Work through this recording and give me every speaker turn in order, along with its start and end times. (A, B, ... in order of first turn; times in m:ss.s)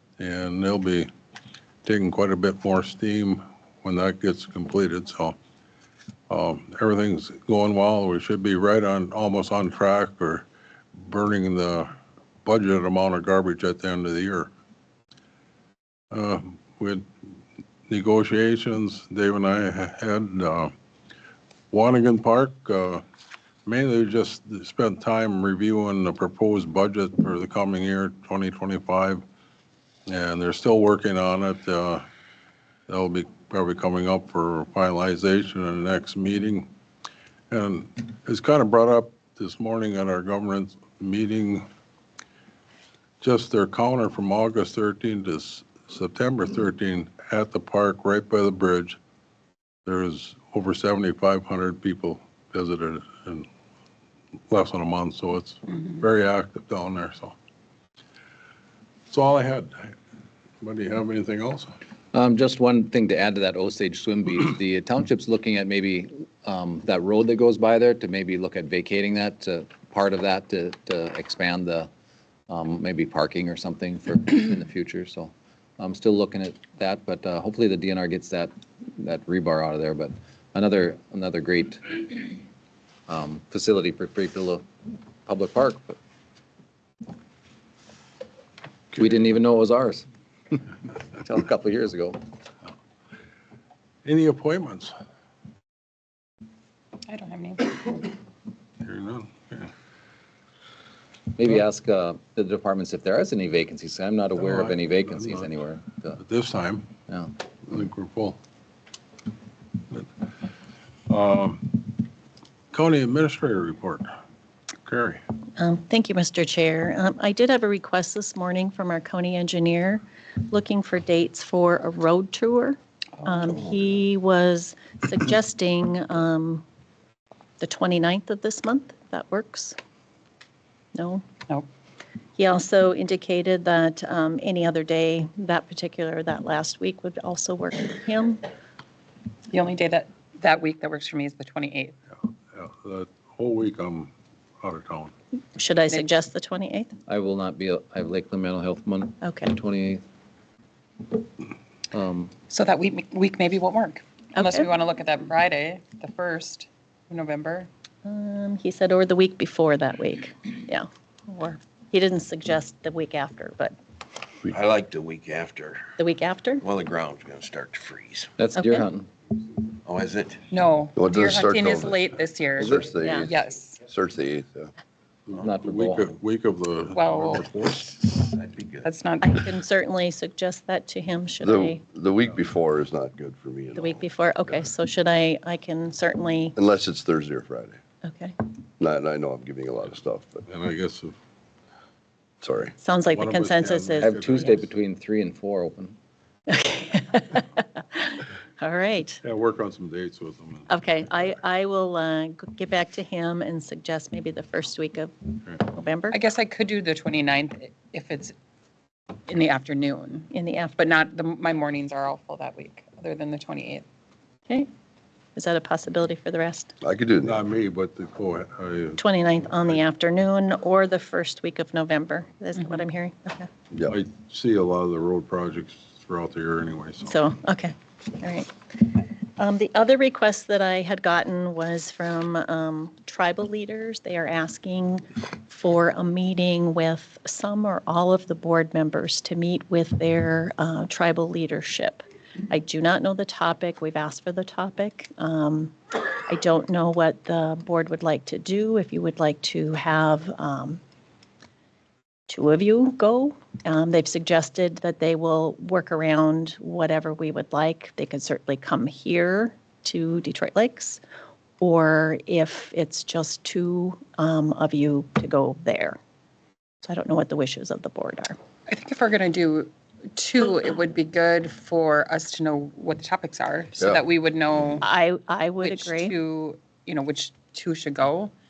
0:00.2-0:01.1 A
0:01.8-0:05.4 A
0:06.3-0:10.4 A
0:11.0-0:14.5 A
0:16.1-0:17.1 A
0:17.9-0:20.7 A
0:21.7-0:23.0 A
0:23.6-0:29.2 A
0:30.1-0:32.0 A
0:32.9-0:36.7 A
0:37.5-0:41.6 A
0:43.2-0:49.0 A
0:49.9-0:53.5 A
0:54.5-0:57.4 A
0:59.1-1:00.0 A
1:00.6-1:01.8 A
1:02.1-1:11.9 B
1:12.5-1:22.4 B
1:23.1-1:24.6 B
1:25.2-1:26.0 B
1:28.9-1:30.6 B
1:31.2-1:32.2 B
1:34.0-1:34.9 A
1:37.1-1:38.1 C
1:38.8-1:39.7 A
1:41.4-1:46.2 B
1:44.4-1:45.5 A
1:46.2-1:46.9 A
1:47.7-1:48.4 A
1:51.1-1:51.9 A
1:52.7-1:54.1 A
1:54.8-1:55.2 A
1:55.6-2:06.6 D
2:07.6-2:09.8 D
2:11.0-2:11.2 D
2:12.4-2:18.5 D
2:19.5-2:22.0 C
2:22.5-2:25.1 A
2:25.6-2:26.9 D
2:27.1-2:30.0 B
2:29.2-2:29.5 D
2:31.9-2:32.3 B
2:32.5-2:37.7 C
2:34.4-2:34.7 D
2:38.0-2:43.8 D
2:44.5-2:45.9 E
2:46.0-2:46.6 D
2:46.6-2:48.3 E
2:48.4-2:49.1 B
2:48.6-2:48.9 D
2:49.8-2:50.4 E
2:50.5-2:53.8 C
2:51.0-2:54.7 F
2:53.0-2:53.3 D
2:55.3-2:58.2 A
2:55.4-2:56.1 B
2:56.9-2:57.5 C
2:58.2-2:58.9 E
2:58.8-2:59.5 C
2:59.2-3:01.8 D
3:01.4-3:04.7 F
3:03.8-3:06.6 D
3:06.6-3:07.8 F
3:08.0-3:08.4 D
3:08.8-3:10.4 F
3:10.5-3:11.2 A
3:12.4-3:12.8 F
3:12.8-3:14.2 D
3:13.1-3:14.6 A
3:14.0-3:16.0 B
3:16.5-3:19.2 D
3:19.2-3:20.8 A
3:20.7-3:26.2 D
3:26.1-3:28.3 C
3:29.3-3:33.8 C
3:30.3-3:30.8 D
3:35.4-3:36.7 D
3:36.8-3:37.4 F
3:37.2-3:39.0 A
3:39.0-3:43.5 D
3:43.9-3:47.2 A
3:47.1-4:10.8 D
4:12.3-4:21.0 D
4:21.6-4:26.0 D
4:26.8-4:28.4 D
4:28.7-4:34.9 C
4:34.8-4:36.2 D
4:35.6-4:38.3 C